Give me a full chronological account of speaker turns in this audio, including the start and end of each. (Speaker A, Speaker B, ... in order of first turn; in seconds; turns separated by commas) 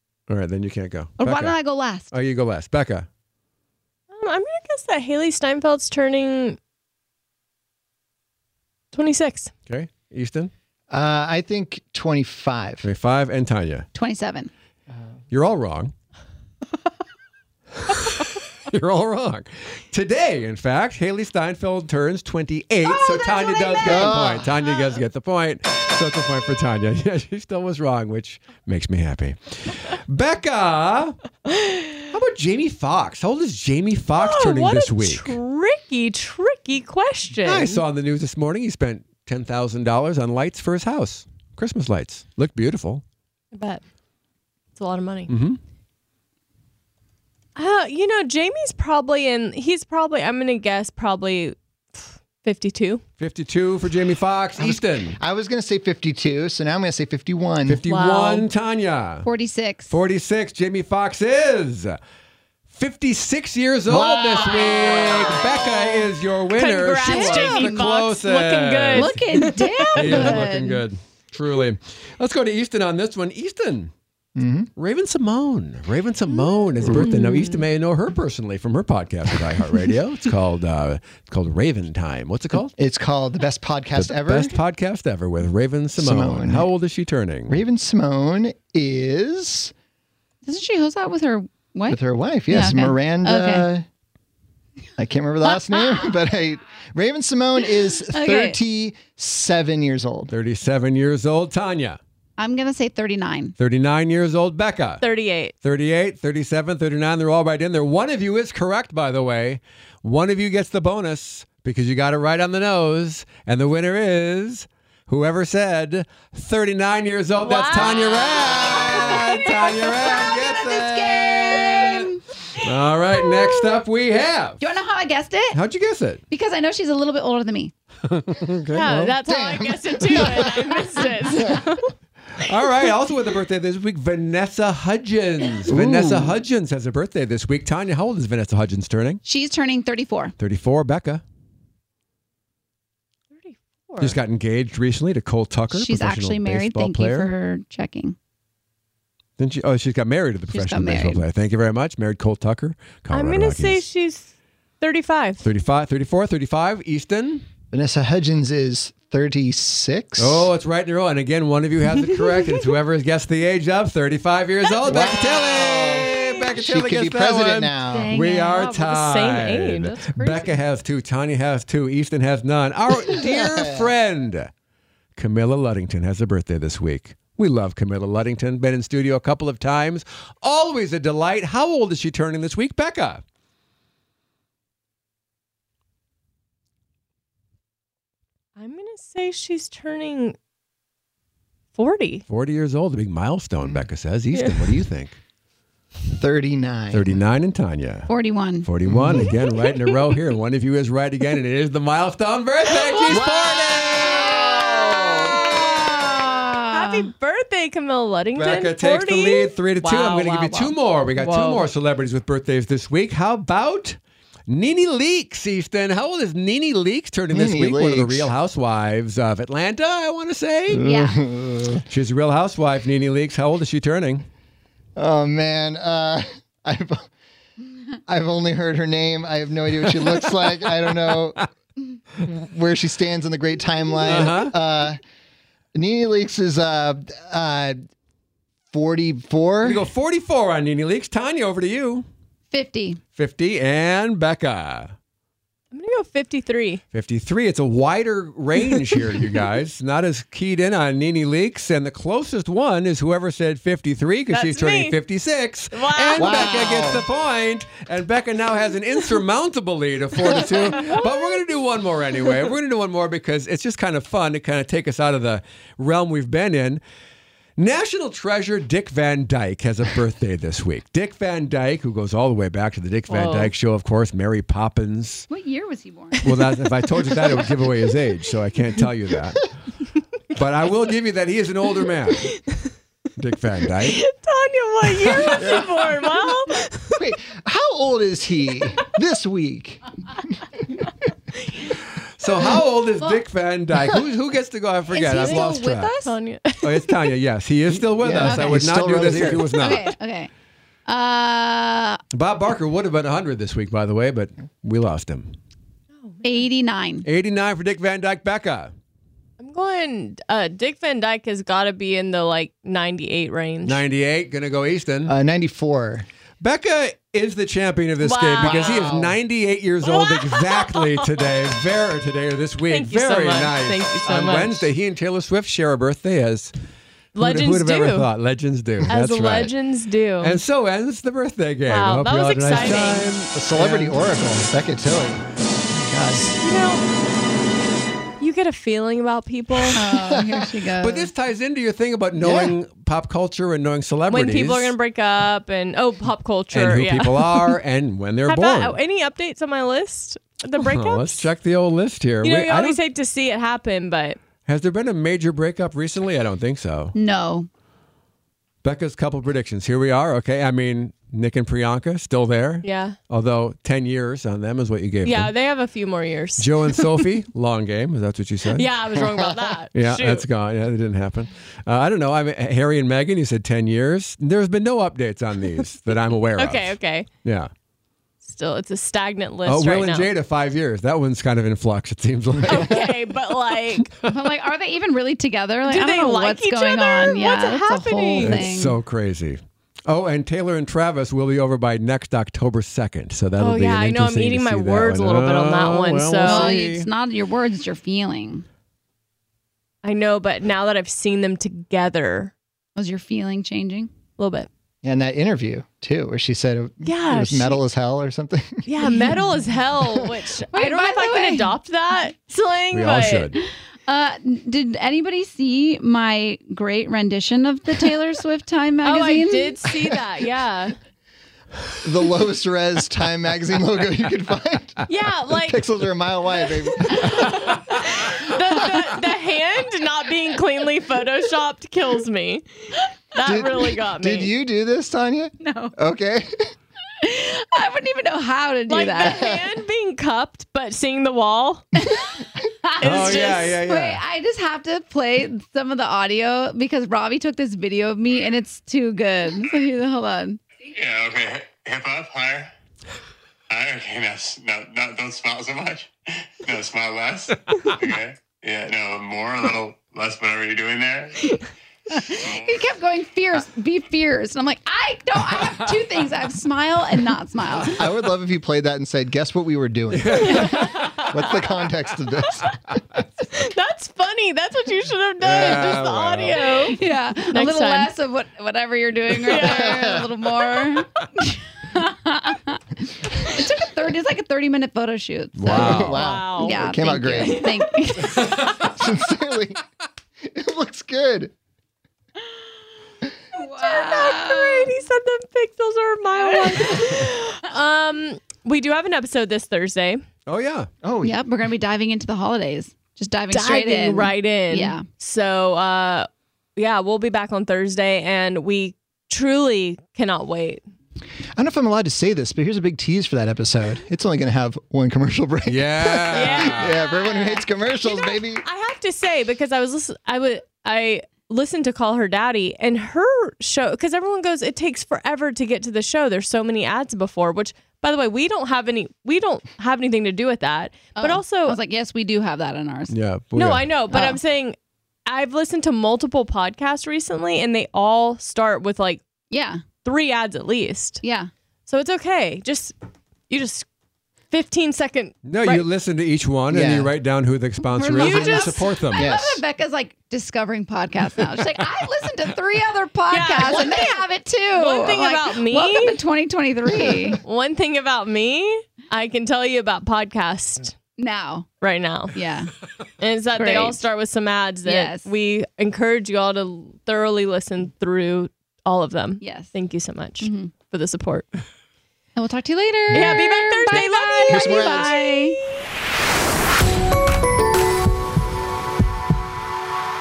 Speaker A: 0.3-1.6, Speaker B: 1.2-2.1, Speaker A: 2.1-3.1, Speaker C: 4.1-6.6, Speaker C: 8.9-9.5, Speaker A: 9.7-10.5, Speaker D: 10.9-12.8, Speaker A: 12.8-13.9, Speaker B: 13.9-14.5, Speaker A: 15.3-15.9, Speaker A: 17.8-31.2, Speaker B: 22.8-24.5, Speaker D: 23.8-24.5, Speaker C: 31.5-31.9, Speaker A: 32.1-35.4, Speaker C: 34.2-37.8, Speaker A: 37.4-43.0, Speaker C: 43.5-43.8, Speaker C: 44.8-45.3, Speaker A: 45.3-45.6, Speaker C: 47.5-53.0, Speaker A: 53.2-55.2, Speaker D: 54.5-57.8, Speaker A: 57.6-59.3, Speaker C: 57.9-58.5, Speaker B: 59.2-60.0, Speaker A: 59.9-62.0, Speaker A: 62.7-69.2, Speaker D: 63.9-65.3, Speaker C: 64.5-70.5, Speaker B: 67.0-67.8, Speaker B: 68.9-70.8, Speaker A: 69.9-73.9, Speaker D: 74.3-74.7, Speaker A: 74.8-82.7, Speaker C: 76.8-77.6, Speaker D: 82.7-84.5, Speaker A: 84.0-87.6, Speaker D: 86.0-86.7, Speaker D: 87.5-89.7, Speaker B: 90.4-93.7, Speaker D: 91.9-93.8, Speaker D: 95.0-100.3, Speaker B: 95.5-96.1, Speaker B: 98.0-98.6, Speaker A: 100.3-102.0, Speaker B: 102.4-103.5, Speaker A: 103.6-105.0, Speaker C: 105.0-105.5, Speaker A: 105.6-122.1, Speaker C: 117.4-120.1, Speaker B: 118.5-119.2, Speaker B: 119.8-122.2, Speaker A: 122.6-124.7, Speaker C: 123.2-123.8, Speaker B: 124.6-125.6, Speaker A: 125.5-126.2, Speaker B: 126.3-127.7, Speaker A: 128.1-129.1, Speaker C: 128.7-131.9, Speaker D: 128.9-130.8, Speaker A: 132.3-139.2, Speaker D: 135.7-136.3, Speaker B: 139.2-140.3, Speaker A: 140.4-141.2, Speaker C: 143.3-144.2, Speaker A: 144.0-147.3, Speaker B: 145.7-148.2, Speaker A: 149.4-153.8, Speaker B: 150.5-151.2, Speaker C: 153.1-155.5, Speaker A: 155.4-157.5, Speaker D: 157.7-160.5, Speaker A: 160.2-174.5, Speaker C: 164.7-165.3, Speaker D: 164.8-168.1, Speaker B: 167.9-168.7, Speaker C: 168.5-170.6, Speaker D: 173.1-173.9, Speaker A: 175.2-183.2, Speaker C: 188.6-190.3, Speaker C: 191.8-192.2, Speaker A: 192.3-195.2, Speaker C: 194.3-194.7, Speaker D: 196.1-197.2, Speaker A: 196.9-198.1, Speaker B: 198.1-198.7, Speaker A: 198.6-205.7, Speaker D: 198.8-199.3, Speaker C: 199.6-199.9, Speaker C: 202.9-205.7, Speaker B: 203.9-205.2, Speaker B: 206.3-207.1, Speaker C: 206.7-211.7, Speaker A: 208.3-221.0, Speaker D: 217.3-218.3, Speaker D: 220.7-221.8, Speaker B: 220.8-221.2, Speaker A: 221.8-224.2, Speaker D: 224.9-227.1, Speaker D: 228.1-231.4, Speaker A: 229.8-231.4, Speaker D: 232.2-235.0, Speaker A: 234.1-234.5, Speaker D: 235.7-237.8, Speaker D: 238.7-239.8, Speaker A: 239.6-242.1, Speaker B: 242.5-243.0, Speaker A: 243.2-244.9, Speaker C: 245.7-246.8, Speaker A: 246.9-266.8, Speaker C: 248.7-249.3, Speaker C: 254.3-255.0, Speaker C: 255.7-256.9, Speaker D: 256.1-257.0, Speaker C: 260.4-261.0, Speaker A: 267.6-275.3, Speaker C: 273.1-273.5, Speaker B: 275.3-276.3, Speaker A: 276.2-279.4, Speaker A: 280.3-282.4, Speaker C: 282.2-282.6, Speaker A: 283.2-284.0, Speaker C: 283.7-287.0, Speaker A: 285.2-285.5, Speaker D: 285.4-285.8, Speaker D: 286.9-290.4, Speaker A: 292.2-295.9, Speaker B: 294.9-296.1, Speaker C: 295.1-297.1, Speaker A: 296.6-299.9, Speaker D: 297.8-299.6, Speaker B: 298.2-298.6, Speaker B: 299.6-300.3, Speaker B: 300.9-302.0, Speaker A: 302.1-305.3, Speaker C: 305.9-306.4, Speaker B: 306.2-307.1, Speaker A: 307.0-308.7, Speaker C: 309.4-313.8, Speaker A: 313.6-315.1, Speaker D: 315.1-316.1, Speaker A: 316.4-326.5, Speaker C: 318.0-319.0, Speaker D: 318.4-319.2, Speaker C: 319.8-321.2, Speaker C: 322.7-324.6, Speaker C: 327.1-328.1, Speaker A: 327.1-329.5, Speaker C: 328.9-330.4, Speaker A: 330.2-334.0, Speaker C: 331.7-333.1, Speaker D: 333.3-336.3, Speaker C: 336.3-336.8, Speaker C: 338.2-339.8, Speaker B: 339.7-341.1, Speaker D: 339.8-340.5, Speaker A: 340.8-344.7, Speaker D: 342.2-342.5, Speaker C: 344.1-347.5, Speaker A: 346.5-348.8, Speaker C: 348.3-351.3, Speaker A: 350.6-352.8, Speaker C: 352.2-354.2, Speaker A: 354.4-356.9, Speaker B: 356.9-357.5, Speaker A: 358.6-365.3, Speaker C: 362.6-363.0, Speaker C: 365.0-367.1, Speaker A: 366.4-368.7, Speaker C: 368.5-370.2, Speaker A: 369.7-377.5, Speaker C: 376.4-377.1, Speaker C: 378.2-380.1, Speaker A: 379.4-384.1, Speaker C: 382.5-383.9, Speaker B: 384.1-388.8, Speaker C: 385.7-388.5, Speaker A: 388.2-396.9, Speaker C: 393.4-396.5, Speaker B: 396.2-398.4, Speaker C: 399.8-402.3, Speaker B: 402.8-403.9, Speaker C: 404.2-404.5, Speaker D: 404.8-408.6, Speaker C: 406.8-407.6, Speaker C: 408.6-413.3, Speaker B: 408.8-409.3, Speaker B: 410.5-411.6, Speaker A: 412.7-413.4, Speaker B: 413.4-419.7, Speaker C: 418.8-420.8, Speaker D: 421.8-427.5, Speaker C: 424.9-425.7, Speaker C: 426.8-434.3, Speaker A: 427.3-427.8, Speaker D: 433.2-436.5, Speaker B: 435.4-435.7, Speaker B: 437.0-439.3, Speaker C: 438.7-441.6, Speaker B: 441.8-450.4, Speaker C: 442.8-443.5, Speaker A: 442.8-444.0, Speaker E: 450.7-452.5, Speaker E: 453.5-461.4, Speaker B: 461.9-467.9, Speaker E: 462.1-462.6, Speaker D: 467.6-472.5, Speaker A: 469.9-471.0, Speaker C: 470.3-471.5, Speaker C: 473.2-477.9, Speaker A: 475.2-476.4, Speaker B: 476.5-488.5, Speaker C: 479.2-479.9, Speaker D: 479.3-480.1, Speaker A: 485.4-486.0, Speaker D: 485.5-487.5, Speaker C: 485.7-487.8, Speaker A: 488.1-488.7, Speaker D: 488.6-489.6, Speaker D: 490.2-491.3, Speaker B: 493.3-494.7, Speaker C: 493.6-500.0, Speaker B: 496.2-497.1, Speaker A: 500.3-500.7, Speaker D: 500.8-501.2, Speaker B: 501.0-504.8, Speaker C: 503.3-510.6, Speaker D: 511.4-518.4, Speaker A: 515.5-516.8, Speaker C: 516.1-531.6, Speaker B: 531.0-532.9, Speaker A: 532.9-533.6, Speaker C: 533.4-534.5, Speaker B: 533.9-534.2, Speaker C: 535.1-539.0, Speaker B: 539.3-539.6, Speaker C: 539.8-541.0, Speaker B: 541.0-541.3, Speaker C: 541.7-542.7, Speaker C: 543.3-543.7, Speaker C: 544.3-545.6, Speaker A: 545.2-549.1, Speaker D: 546.5-546.9, Speaker B: 547.7-557.2, Speaker C: 547.9-548.8, Speaker D: 548.9-549.4, Speaker C: 553.1-556.0, Speaker C: 557.2-560.7, Speaker B: 561.0-561.5, Speaker C: 561.6-562.1, Speaker B: 562.1-562.5, Speaker C: 563.0-571.3, Speaker B: 563.4-563.8, Speaker B: 564.6-565.1, Speaker B: 569.2-569.5, Speaker B: 570.2-570.5, Speaker B: 572.1-575.4, Speaker C: 572.9-575.6, Speaker D: 573.7-575.0